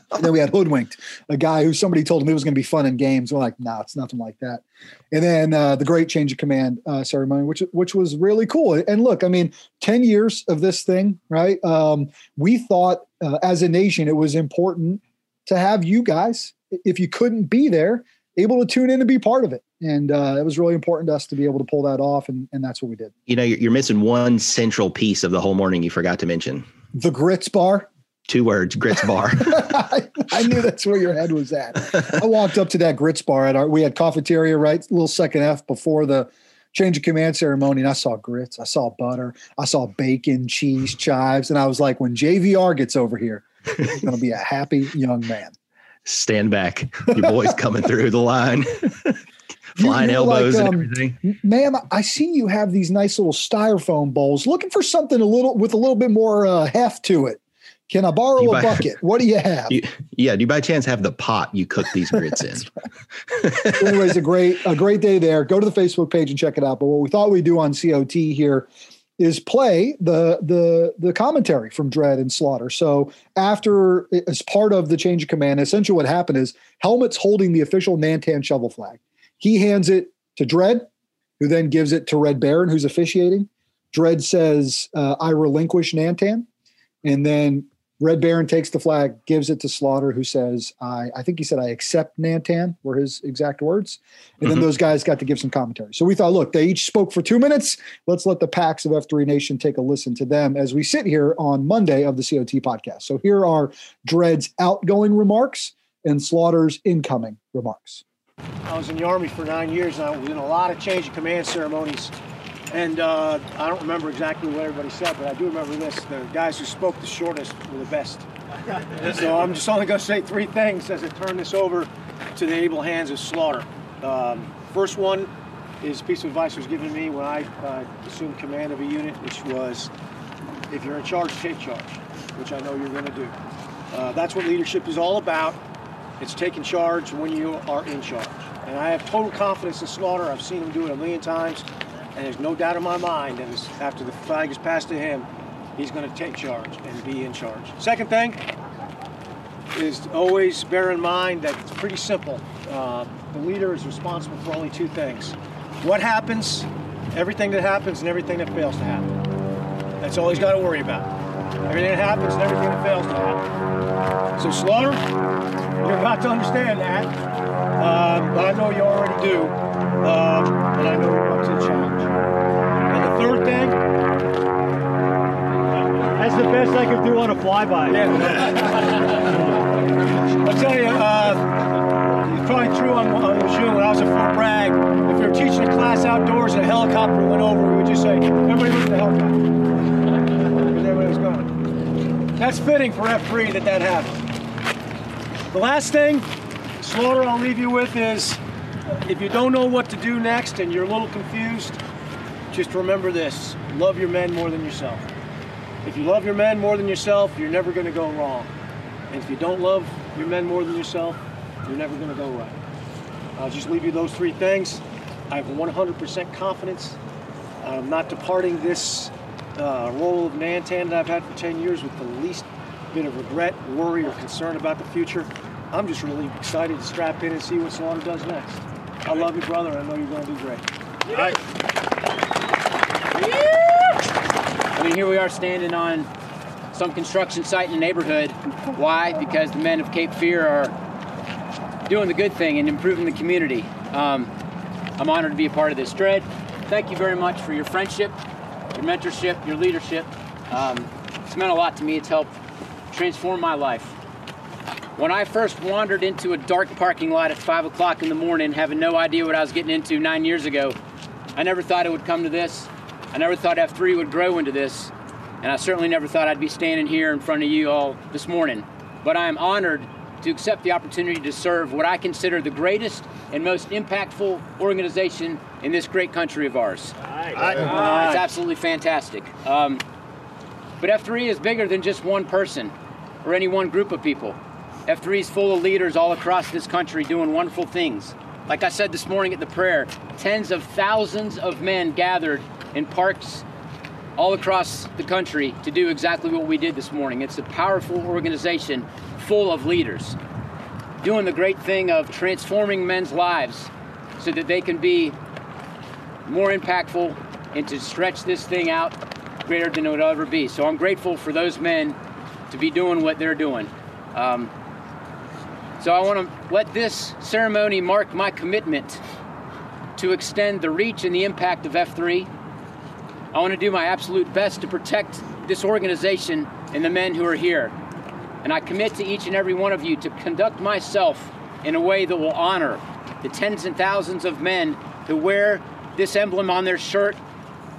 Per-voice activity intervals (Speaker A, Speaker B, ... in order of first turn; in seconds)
Speaker A: 0.1-23.1, 26.9-27.9, 29.5-45.5, 49.8-59.8, 63.7-80.9, 81.4-86.5, 87.0-108.0
Speaker B: 23.3-26.7, 28.3-29.7, 46.1-49.2, 49.8-51.2, 58.4-58.9, 59.7-62.7, 63.3-64.1
Speaker C: 108.7-112.2, 112.7-118.3, 119.0-125.3, 125.8-129.9, 130.7-133.4, 133.9-135.6, 136.2-148.4, 149.7-159.1, 160.0-161.1, 161.7-163.4, 164.4-165.0, 165.8-167.2, 167.8-172.2, 172.9-173.8, 177.9-179.1, 180.4-181.5, 182.1-189.4, 190.6-191.5, 192.4-194.2, 195.5-196.3, 196.8-198.4, 199.0-201.8, 202.5-205.1, 205.8-208.5, 209.1-212.6, 213.4-217.0, 217.6-231.4, 277.4-278.2
Speaker D: 176.2-178.2
Speaker E: 234.8-236.1, 236.7-240.7, 241.8-244.3, 245.0-248.2, 248.7-252.3, 252.9-253.9, 255.0-260.8, 261.4-276.9, 277.5-279.8, 280.8-293.4, 294.2-300.2, 301.0-305.2, 306.3-312.0, 312.5-314.5, 315.8-319.0, 320.0-322.3, 323.3-327.7, 328.4-337.2